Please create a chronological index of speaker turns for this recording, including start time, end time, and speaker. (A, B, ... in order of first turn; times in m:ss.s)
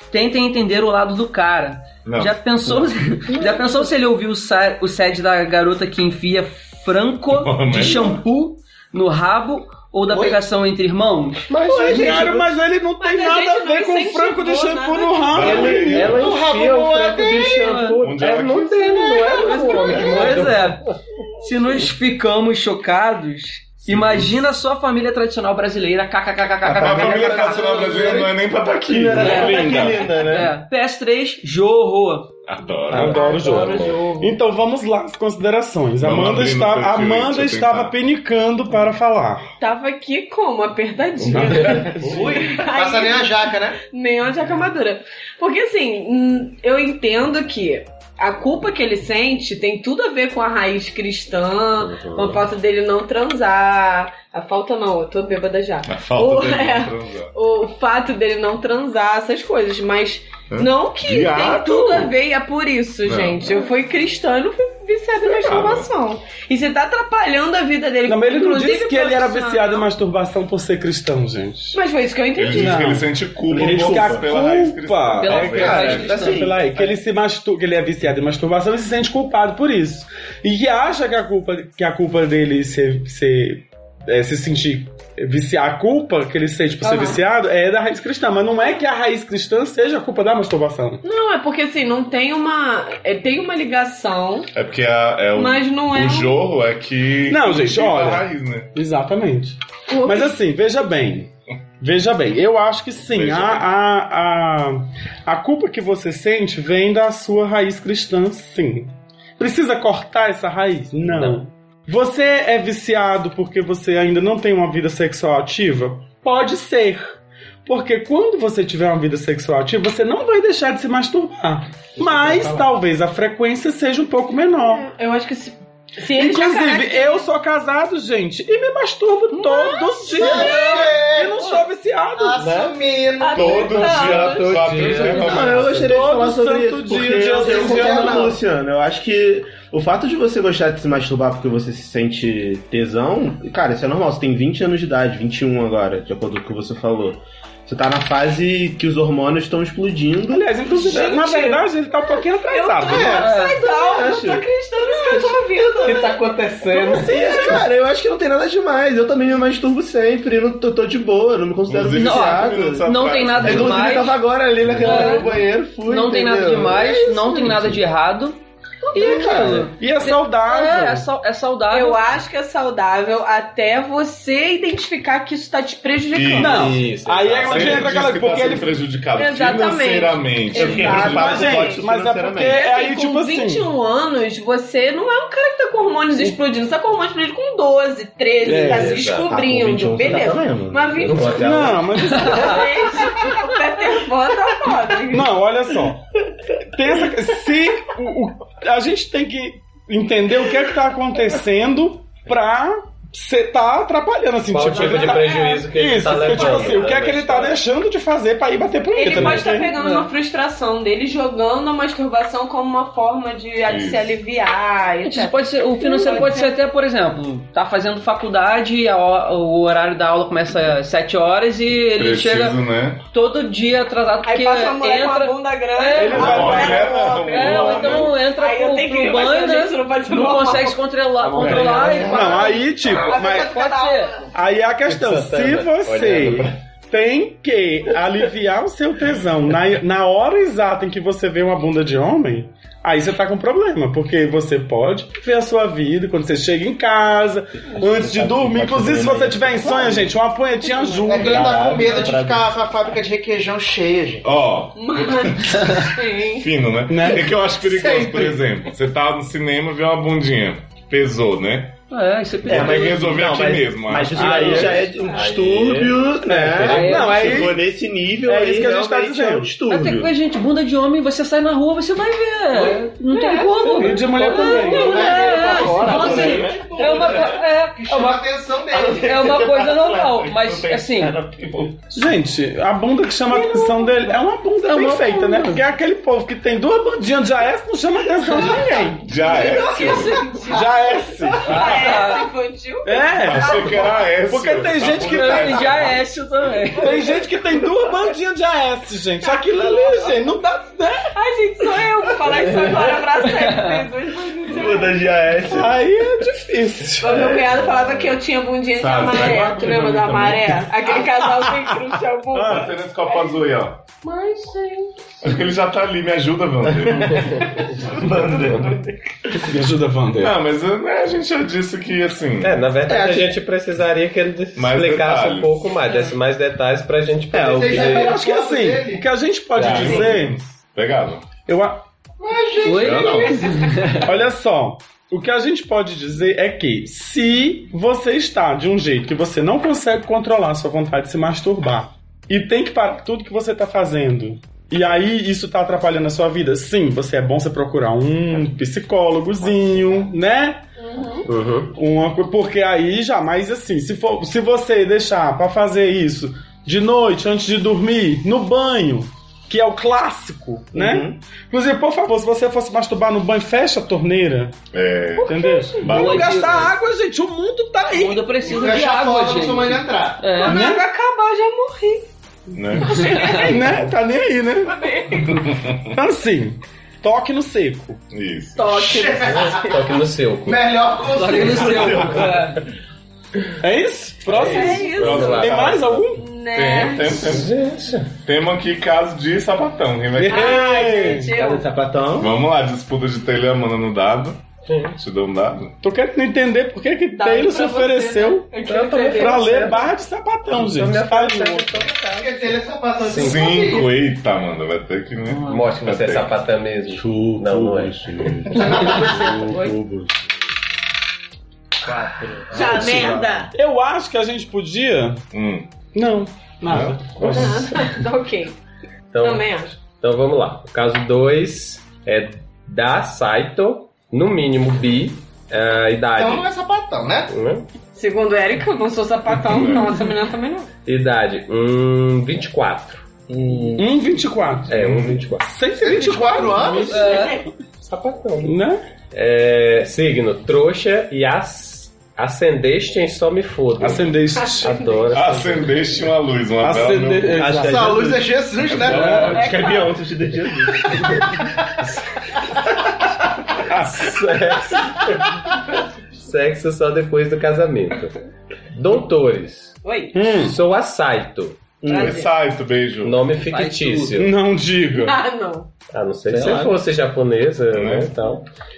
0:00.1-0:11.5 A
0:02.0-0:02.3 B
0:07.3-0:08.2 B
0:11.5-0:12.5 C
0:11.7-0:16.2 D
0:11.9-0:12.2 E
0:13.0-0:16.0 F
0:15.3-0:16.4 B
0:15.4-0:21.0 C
0:16.1-0:17.4 G
0:17.4-0:18.0 A
0:18.0-0:19.1 B
0:18.8-0:20.1 F
0:19.2-0:20.8 A
0:21.4-0:28.1 A
0:23.8-0:24.3 B
0:26.6-0:28.3 E
0:26.7-0:30.0 B
0:28.9-0:30.5 E
0:29.2-0:32.3 A
0:29.2-0:29.4 D
0:32.4-0:33.4 B
0:32.9-0:39.4 D
0:32.9-0:34.2 C
0:33.2-0:33.9 F
0:33.4-0:33.9 A
0:36.0-0:37.9 B
0:39.6-1:09.9 F
0:41.2-0:42.3 C
0:41.4-0:42.1 E
0:41.4-0:42.2 D
0:42.0-0:43.8 G
0:51.9-0:52.4 C
0:55.8-0:57.3 B
1:00.5-1:02.1 B
1:03.0-1:03.5 B
1:05.2-1:05.9 B
1:08.0-1:11.8 D
1:11.7-1:13.0 F
1:12.3-1:16.2 B
1:12.6-1:31.0 D
1:13.5-1:14.2 E
1:15.2-1:16.5 A
1:15.7-1:16.5 G
1:16.0-1:16.6 E
1:26.8-1:27.2 F
1:31.0-1:34.5 F
1:34.5-1:38.7 B
1:35.3-1:36.4 F
1:37.2-1:41.3 D
1:39.9-1:40.3 F
1:41.8-2:04.9 D
1:43.1-1:43.7 B
1:51.1-1:51.4 C
2:04.7-2:07.3 F
2:06.1-2:12.4 D
2:09.3-2:11.6 F
2:10.1-2:11.6 G
2:12.2-2:14.1 G
2:12.4-2:12.8 C
2:13.2-2:15.3 F
2:13.3-2:15.7 B
2:13.8-2:15.7 C
2:15.2-2:30.9 E
2:15.6-2:18.4 D
2:17.4-2:18.2 C
2:17.4-2:17.9 F
2:30.3-2:33.3 D
2:30.7-2:37.5 F
2:32.9-2:33.2 G
2:33.1-2:33.6 A
2:33.6-2:34.5 E
2:35.0-2:36.0 G
2:35.8-2:36.9 C
2:36.8-2:42.9 E
2:36.9-2:37.6 D
2:41.7-2:44.0 B
2:41.9-2:44.2 A
2:43.4-2:47.8 E
2:44.8-2:45.3 A
2:44.8-2:45.3 F
2:45.8-2:48.4 A
2:48.9-2:52.0 A
2:48.9-2:49.7 E
2:49.0-2:49.4 F
2:49.8-2:51.1 D
2:51.7-2:56.8 F
2:56.1-2:56.6 B
2:56.4-2:58.8 D
2:56.5-2:58.0 C
2:57.3-3:01.4 B
2:59.1-3:01.8 F
3:00.5-3:02.6 E
3:00.9-3:03.7 D
3:02.4-3:11.6 F
3:08.4-3:09.4 C
3:08.4-3:09.1 D
3:09.2-3:11.5 E
3:10.0-3:10.4 C
3:10.9-3:12.1 C
3:11.4-3:12.7 D
3:12.1-3:12.6 A
3:12.1-3:15.4 F
3:15.1-3:16.0 D
3:16.6-3:29.7 D
3:24.5-3:27.6 C
3:24.8-3:26.9 F
3:28.9-3:36.5 F
3:29.6-3:30.1 A
3:33.6-3:34.1 B
3:35.0-3:42.6 A
3:41.9-3:43.0 B
3:43.1-3:46.5 A
3:44.2-3:50.8 F
3:45.9-3:47.2 D
3:46.1-3:48.2 B
3:47.2-3:52.5 A
3:51.2-3:52.9 B
3:51.4-4:11.8 D
3:52.1-3:54.2 F
3:53.3-3:54.1 A
3:54.8-3:56.6 C
4:07.8-4:10.1 E
4:10.6-4:11.2 F
4:11.0-4:14.2 G
4:11.1-4:12.5 E
4:11.7-4:12.2 F
4:14.2-4:21.7 B
4:14.8-4:16.5 F
4:16.9-4:17.4 D
4:17.7-4:18.4 G
4:21.9-4:23.2 A
4:22.4-4:24.6 B
4:22.4-4:30.1 E
4:24.1-4:24.9 D
4:24.5-4:27.1 C
4:24.9-4:25.3 F
4:26.6-4:27.5 A
4:26.7-4:27.6 D
4:28.2-4:29.5 D
4:29.7-4:38.3 A
4:32.6-4:36.6 F
4:33.7-4:35.4 D
4:34.2-4:34.5 C
4:34.7-4:39.2 G
4:35.8-4:37.2 E
4:38.7-4:41.9 E
4:38.8-4:41.2 A
4:41.9-4:49.1 D
4:43.3-4:44.0 F
4:44.8-4:45.4 F
4:48.2-4:54.1 F
4:49.0-4:50.3 B
4:50.4-4:51.7 D
4:51.4-4:52.3 A
4:52.8-4:55.9 D
4:53.2-4:56.0 B
4:55.1-4:57.2 A
4:56.8-5:01.1 D
4:56.9-4:57.2 F
4:59.3-5:00.1 F
5:01.1-5:05.0 F
5:02.3-5:02.6 E
5:03.4-5:03.9 A
5:04.4-5:05.8 E
5:05.5-5:07.3 D
5:07.0-5:13.4 F
5:07.1-5:07.6 E
5:08.7-5:10.2 B
5:09.8-5:10.5 E
5:11.3-5:12.7 D
5:12.5-5:13.8 B
5:14.0-5:14.6 F
5:15.2-5:17.4 B
5:17.0-5:18.8 C
5:17.9-5:18.8 E
5:19.4-5:20.4 D
5:20.2-5:22.6 B
5:22.4-5:28.2 C
5:22.9-5:23.4 E
5:24.6-5:25.7 B
5:27.3-5:28.1 E
5:27.4-5:29.0 G
5:27.8-5:30.4 D
5:29.5-5:30.1 C
5:29.6-5:31.3 B
5:31.5-5:31.8 D
5:32.2-5:33.8 G
5:32.6-5:34.1 A
5:32.8-5:33.4 B
5:34.0-5:50.6 D
5:50.8-5:51.3 F
5:51.3-5:51.7 C
5:51.7-6:04.6 D
6:00.7-6:01.2 E
6:04.7-6:06.7 B
6:05.2-6:06.0 F
6:05.2-6:08.3 D
6:05.9-6:06.7 A
6:07.9-6:10.7 A
6:08.4-6:10.3 G
6:10.4-6:12.1 F
6:10.4-6:10.8 D
6:12.5-6:13.4 B
6:12.8-6:13.7 F
6:12.9-6:13.4 A
6:13.3-6:14.8 D
6:14.6-6:15.3 F
6:15.2-6:16.0 B
6:15.9-6:18.0 D
6:18.1-6:18.7 B
6:18.6-6:19.8 F
6:18.7-6:19.8 G
6:19.2-6:20.6 C
6:20.4-6:22.4 G
6:21.1-6:22.6 A
6:23.6-6:26.2 D
6:24.3-6:25.9 C
6:24.4-6:25.5 F
6:24.9-6:27.5 B
6:26.1-6:27.2 F
6:27.1-6:28.1 C
6:28.2-6:31.0 B
6:30.2-6:31.3 D
6:30.3-6:31.7 F
6:31.3-6:32.3 E
6:32.2-6:34.4 B
6:34.7-6:35.0 C
6:35.0-6:35.7 B
6:35.8-6:38.6 D
6:37.1-6:39.8 F
6:38.6-6:39.9 C
6:39.1-6:41.8 D
6:40.5-6:43.4 C
6:42.1-6:44.0 G
6:43.1-6:46.3 B
6:45.4-6:48.2 C
6:46.9-6:50.1 E
6:48.5-6:49.7 A
6:51.8-6:53.5 E
6:52.5-6:53.5 F
6:52.6-6:53.0 G
6:53.5-6:55.2 D
6:55.3-6:55.7 B
6:55.9-6:57.7 D
6:56.6-6:57.1 B
6:57.2-6:58.0 C
6:57.3-6:58.6 F
6:59.1-7:06.5 C
6:59.2-6:59.8 F
7:06.2-7:07.3 G
7:07.3-7:07.7 C
7:07.9-7:10.7 F
7:09.4-7:09.9 B
7:10.8-7:13.0 C
7:13.3-7:13.9 E
7:13.8-7:14.8 D
7:14.7-7:15.5 C
7:14.7-7:15.2 B
7:15.4-7:17.2 D
7:15.8-7:17.2 G
7:16.8-7:17.5 F
7:16.9-7:17.4 A
7:17.8-7:18.6 C
7:18.4-7:18.8 D
7:19.1-7:25.8 C
7:23.8-7:24.7 D
7:24.4-7:25.1 F
7:25.1-7:27.6 B
7:26.6-7:28.0 D
7:27.3-7:28.3 E
7:27.6-7:29.4 G
7:28.9-7:29.4 D
7:28.9-7:29.4 C
7:28.9-7:31.2 E
7:29.3-7:30.0 F
7:33.7-7:34.8 D
7:33.9-7:35.3 C
7:36.1-7:38.2 C
7:38.7-7:41.6 C
7:39.8-7:40.2 F
7:40.1-7:40.6 D
7:41.8-7:42.2 E
7:41.9-7:42.3 F
7:41.9-7:43.3 B
7:43.0-7:44.3 C
7:43.4-7:44.1 A
7:44.2-7:45.2 D
7:44.9-7:45.7 F
7:45.9-7:48.5 C
7:46.3-7:46.8 E
7:47.7-7:48.1 B